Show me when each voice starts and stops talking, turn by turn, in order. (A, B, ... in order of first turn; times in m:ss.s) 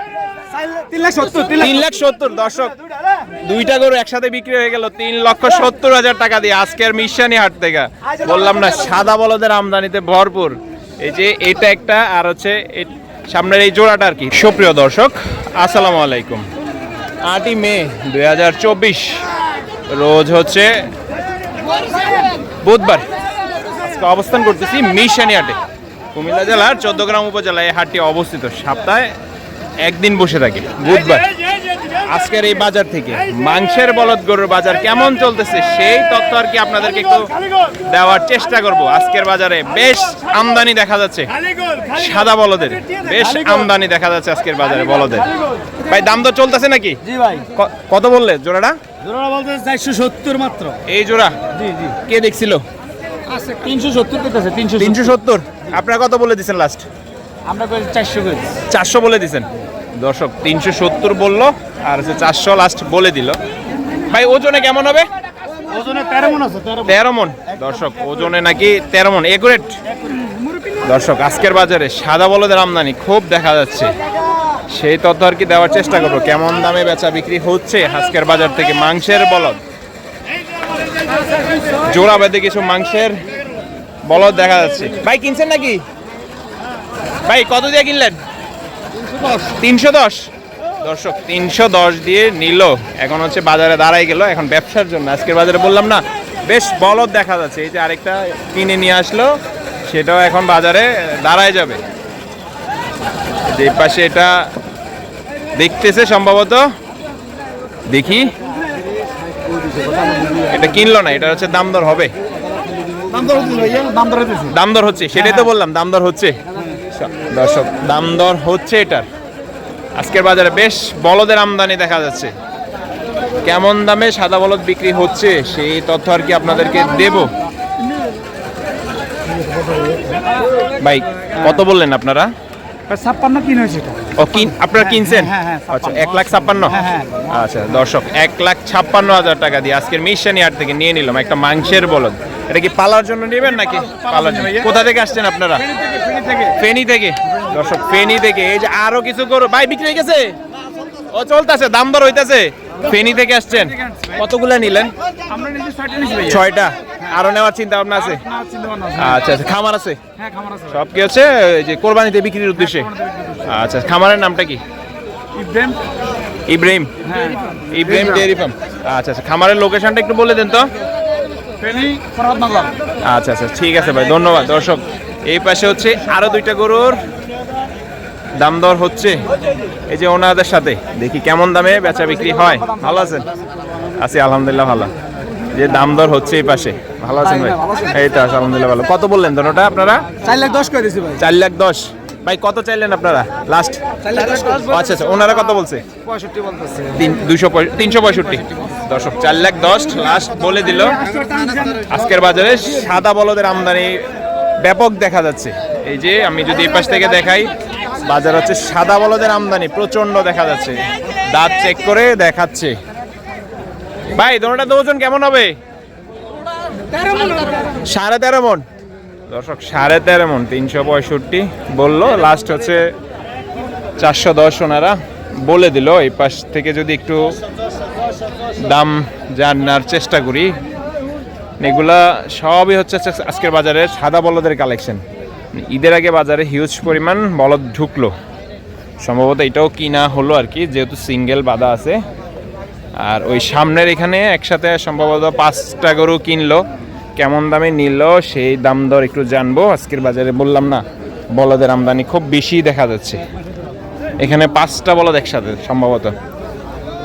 0:00.5-0:01.8 A
0:01.6-0:02.7 B
0:03.4-0:16.4 B
0:08.2-0:09.0 A
0:17.2-0:19.2 B
0:19.9-0:20.9 B
0:22.6-0:23.1 B
0:23.8-0:25.6 B
0:26.1-0:29.1 B
0:29.8-0:31.3 B
0:32.0-0:37.3 B
0:37.8-0:41.3 B
0:41.5-0:42.0 A
0:41.9-0:45.3 B
0:43.0-0:43.6 A
0:45.9-0:47.0 B
0:47.0-0:47.5 A
0:47.5-0:48.8 B
0:49.0-0:50.8 A
0:50.9-0:51.3 B
0:51.5-0:52.0 A
0:52.0-0:52.6 B
0:53.3-0:55.1 A
0:54.8-0:56.8 B
0:57.4-0:58.6 A
0:58.7-0:59.5 B
1:00.0-1:03.4 B
1:04.1-1:05.1 B
1:05.6-1:06.9 A
1:06.8-1:09.8 B
1:10.0-1:10.8 A
1:10.8-1:13.9 B
1:14.7-1:19.6 B
1:21.8-1:23.2 B
1:24.0-1:25.8 B
1:27.2-1:28.2 B
1:29.6-1:30.3 B
1:30.8-1:39.4 B
1:39.9-1:41.8 B
1:43.5-1:44.5 B
1:45.6-1:46.7 B
1:47.9-1:48.3 B
1:49.7-1:50.4 A
1:50.5-1:52.1 B
1:53.0-1:54.5 A
1:54.5-1:56.4 B
1:55.2-1:55.5 A
1:56.9-1:59.0 B
2:00.0-2:02.3 B
2:03.4-2:07.3 B
2:10.8-2:12.3 B
2:12.9-2:17.3 A
2:14.2-2:25.7 B
2:23.7-2:24.7 A
2:25.7-2:26.5 A
2:26.6-2:30.4 B
2:31.1-2:34.9 B
2:35.2-2:36.4 A
2:36.2-2:38.2 B
2:38.1-2:39.2 A
2:39.0-2:40.0 B
2:40.2-2:40.8 A
2:40.7-2:42.9 B
2:42.6-2:43.5 A
2:43.4-2:44.6 B
2:45.3-2:45.9 A
2:46.5-2:46.9 B
2:47.0-2:48.3 A
2:47.7-2:50.7 B
2:51.6-2:52.8 A
2:53.1-2:57.0 B
2:58.4-2:59.3 B
2:59.9-3:03.3 B
3:02.5-3:03.1 A
3:04.0-3:04.9 B
3:05.5-3:10.1 B
3:07.4-3:07.9 A
3:10.2-3:11.2 A
3:11.2-3:13.8 B
3:14.0-3:14.8 A
3:14.5-3:15.8 B
3:16.1-3:17.0 A
3:16.9-3:21.0 B
3:20.8-3:21.9 A
3:21.9-3:24.0 B
3:24.6-3:27.5 B
3:28.0-3:32.8 B
3:34.1-3:35.6 B
3:37.8-3:38.6 B
3:39.3-3:42.9 B
3:44.0-3:47.3 B
3:48.6-3:50.6 B
3:51.6-3:55.0 B
3:55.5-3:58.1 B
3:59.0-4:02.0 B
4:03.0-4:06.6 B
4:07.2-4:13.2 B
4:14.2-4:16.1 B